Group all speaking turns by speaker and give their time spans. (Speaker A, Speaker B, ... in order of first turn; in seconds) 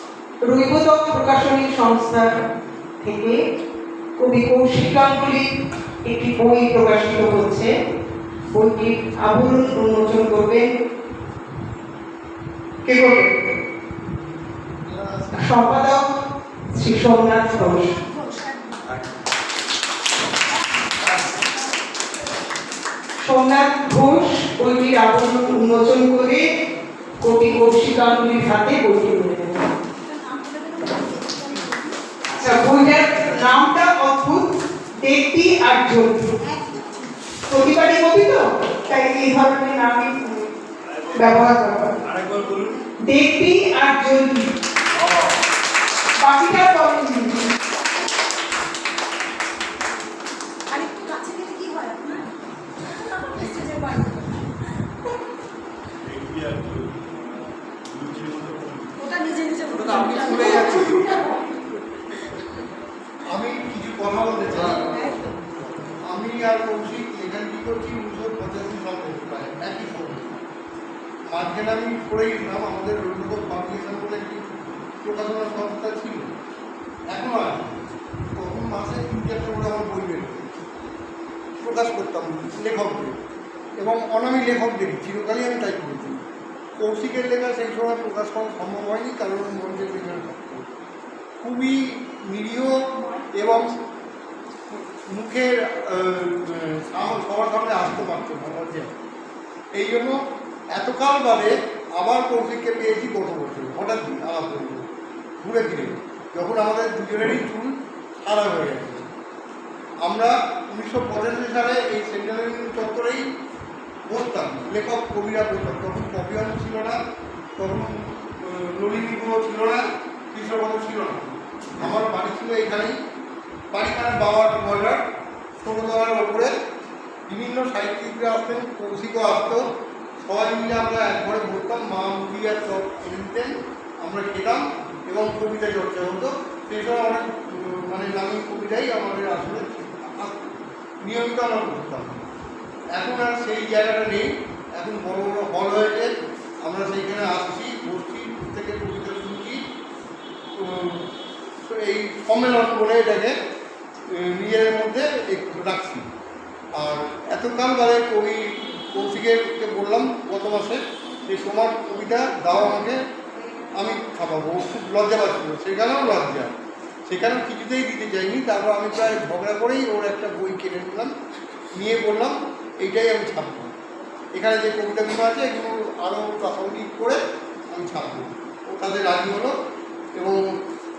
Speaker A: 0.4-2.3, 3.0-3.4, 4.2-5.5, 6.1-7.7, 8.5-10.7, 12.8-13.3, 15.4-16.0, 16.8-17.9, 23.2-26.4, 27.2-29.6, 32.3-34.5, 35.0-36.4, 37.5-40.4, 41.1-41.9, 43.0-44.5, 46.2-47.4
Speaker B: 14.8-15.7, 59.7-61.1, 63.3-65.0, 66.1-70.4, 71.3-76.3, 77.1-77.8, 78.4-80.5, 81.6-83.1, 83.8-86.2, 86.8-90.7, 91.4-92.8, 93.3-93.7, 94.7-98.9, 99.7-100.2, 100.7-104.9, 105.4-109.0, 110.0-113.2, 114.1-117.0, 117.6-122.9, 123.7-125.0, 125.6-126.5, 127.3-129.6, 130.2-133.5, 134.0-140.5, 141.0-142.2, 142.9-146.1, 146.6-149.6, 150.6-151.0, 151.6-153.3, 154.1-156.0, 156.8-163.0, 163.7-166.5, 167.1-171.1, 171.8-173.7, 174.3-177.2, 177.7-179.5
Speaker C: 17.7-18.9, 30.0-32.0, 36.4-37.1, 50.7-52.3, 53.0-54.4, 59.0-61.3, 64.8-65.1
Speaker D: 41.0-41.3, 42.0-42.8, 56.0-57.1, 57.9-59.0